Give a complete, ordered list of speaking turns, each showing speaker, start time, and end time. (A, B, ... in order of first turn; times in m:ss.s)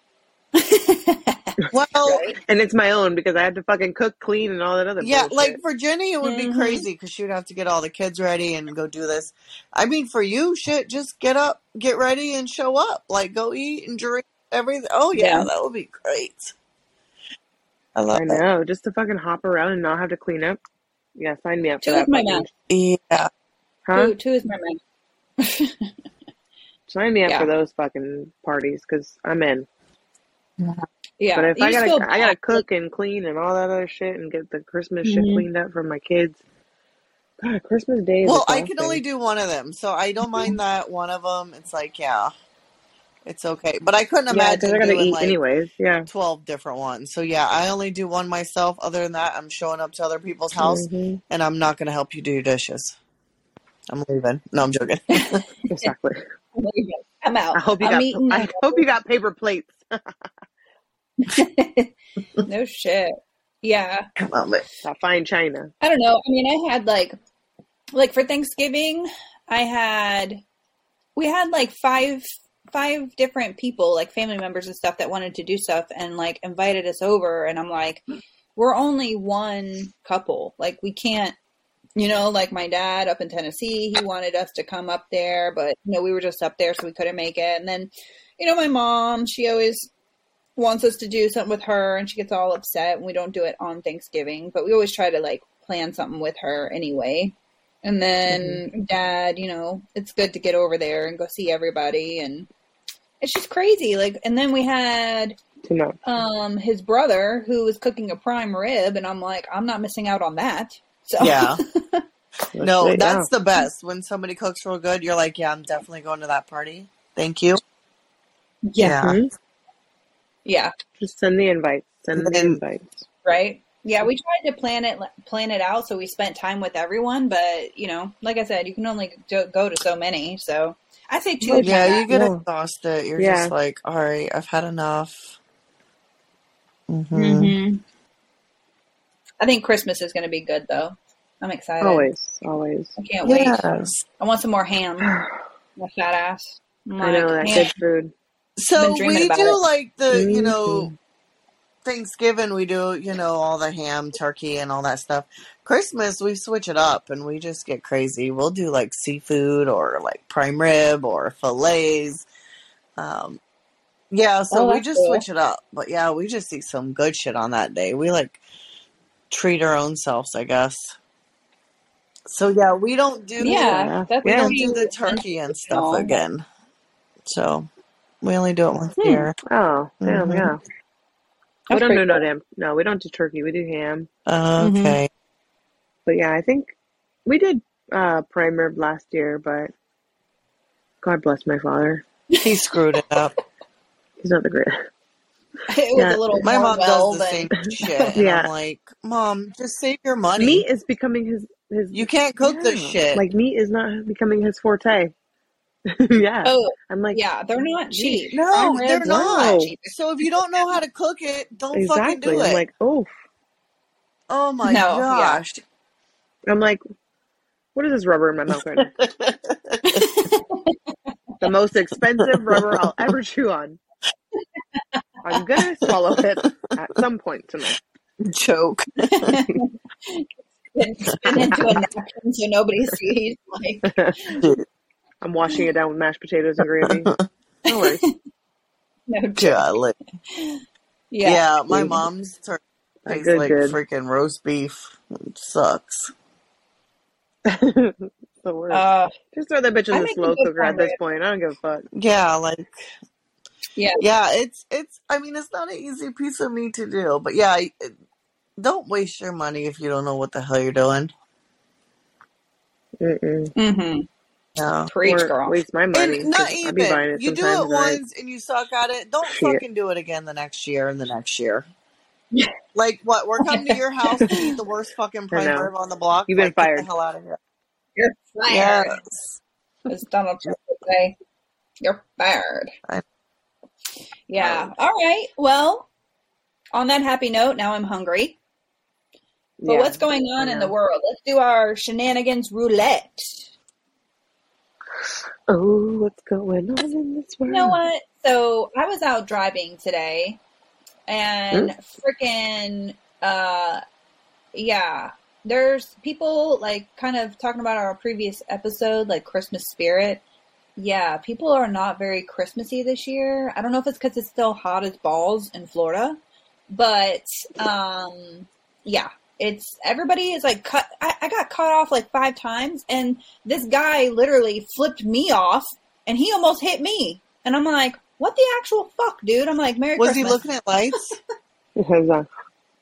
0:00.6-0:02.4 A
0:01.7-0:02.3 B
0:02.4-0:05.6 C
0:05.0-0:16.5 B
0:06.2-0:06.8 A
0:15.1-0:15.5 A
0:18.0-0:18.4 B
0:18.1-0:20.6 C
0:21.2-0:22.5 C
0:21.8-0:22.4 A
0:22.7-0:23.3 B
0:23.9-0:24.1 C
0:23.9-0:24.8 A
0:25.4-0:25.9 A
0:26.9-0:29.7 C
0:27.3-0:27.5 A
0:30.6-0:30.8 B
0:31.2-0:32.6 A
0:31.4-0:36.4 C
0:35.0-0:35.5 A
0:37.4-0:39.0 C
0:38.2-0:42.3 B
0:43.3-0:45.4 B
0:44.3-0:46.1 C
0:46.1-0:53.0 B
0:50.6-0:51.2 C
0:53.9-0:55.4 B
0:55.1-0:55.9 A
0:55.7-0:56.2 C
0:56.6-0:58.8 A
0:57.5-1:00.1 C
1:01.2-1:01.9 A
1:02.4-1:04.1 A
1:04.2-1:04.6 B
1:04.8-1:05.7 C
1:05.8-1:07.2 A
1:07.9-1:10.4 A
1:11.2-1:18.0 A
1:18.6-1:21.4 A
1:22.0-1:29.9 A
1:30.6-1:42.5 A
1:38.3-1:38.6 C
1:43.2-1:45.4 A
1:45.6-1:46.0 C
1:46.0-1:52.0 A
1:51.2-1:51.6 B
1:52.6-1:53.3 C
1:52.6-1:57.6 B
1:58.7-1:59.0 A
1:58.8-1:59.2 B
1:59.0-1:59.3 C
2:00.4-2:00.7 A
2:01.0-2:03.0 C
2:02.2-2:02.6 B
2:03.2-2:12.1 A
2:11.4-2:12.4 C
2:11.6-2:15.4 B
2:13.2-2:13.5 C
2:16.9-2:17.6 B
2:17.1-2:17.8 A
2:19.4-2:22.1 A
2:21.8-2:23.0 C
2:23.0-2:23.7 A
2:23.2-2:24.0 B
2:24.2-2:25.1 A
2:25.0-2:25.4 C
2:25.8-2:27.7 A
2:27.0-2:28.1 C
2:28.6-2:30.9 B
2:28.8-2:29.6 A
2:30.1-2:30.9 C
2:31.8-2:42.3 B
2:43.0-2:43.4 B
2:44.1-2:48.4 B
2:44.5-2:45.2 A
2:49.3-2:51.0 B
2:52.3-2:56.4 B
2:53.4-2:56.2 A
2:53.5-2:54.6 C
2:57.3-2:57.7 B
2:58.2-2:59.4 B
2:59.0-2:59.3 A
2:59.4-3:00.6 C
3:00.0-3:00.5 B
3:01.7-3:02.2 A
3:01.7-3:04.1 C
3:04.3-3:05.1 B
3:04.6-3:05.0 A
3:06.1-3:06.7 C
3:07.3-3:09.7 C
3:11.0-3:12.0 C
3:12.4-3:13.3 B
3:14.2-3:14.8 C
3:15.7-3:18.2 A
3:16.0-3:16.4 C
3:16.4-3:20.6 B
3:18.2-3:18.5 C
3:20.4-3:25.1 C
3:21.9-3:23.2 B
3:25.9-3:27.2 C
3:26.4-3:30.0 A
3:27.9-3:29.7 C
3:28.3-3:32.6 B
3:31.7-3:33.1 C
3:34.3-3:35.6 B
3:34.6-3:35.4 A
3:36.5-3:36.8 C
3:37.8-3:38.9 C
3:38.8-3:40.1 B
3:39.9-3:40.8 A
3:41.4-3:43.8 C
3:42.3-3:42.8 B
3:45.2-3:47.8 C
3:48.2-3:49.4 B
3:49.1-3:54.4 A
3:51.2-3:51.6 B
3:51.4-3:51.7 C
3:54.3-3:54.6 B
3:55.2-3:57.1 C
3:56.9-3:57.2 B
3:57.7-3:58.0 C
3:57.7-3:58.2 A
3:59.1-3:59.7 A
3:59.4-4:00.0 B
4:00.3-4:01.9 A
4:01.2-4:06.1 B
4:01.7-4:02.0 C
4:03.1-4:03.8 C
4:07.5-4:11.9 C
4:08.7-4:09.2 A
4:09.9-4:11.0 A
4:11.9-4:12.8 B
4:13.8-4:14.0 A
4:14.0-4:18.0 B
4:18.6-4:21.1 B
4:23.0-4:23.5 C
4:23.6-4:24.1 A
4:24.6-4:24.9 B
4:24.9-4:25.6 A
4:25.0-4:28.0 C
4:25.9-4:31.7 B
4:29.3-4:29.6 C
4:32.8-4:37.4 B
4:33.5-4:34.6 A
4:35.3-4:35.7 C
4:36.3-4:36.9 C
4:38.0-4:39.0 A
4:38.5-4:39.3 B
4:39.9-4:41.2 A
4:41.8-4:42.7 A
4:44.3-4:45.9 A
4:44.4-4:44.7 C
4:46.7-4:48.4 A
4:49.6-4:50.7 C
4:49.7-4:53.5 A
4:55.5-4:57.8 C
4:57.5-5:00.4 A
5:01.1-5:03.8 A
5:04.5-5:10.2 A
5:10.8-5:16.2 A
5:16.7-5:31.0 A
5:30.0-5:31.2 B
5:31.8-5:32.3 C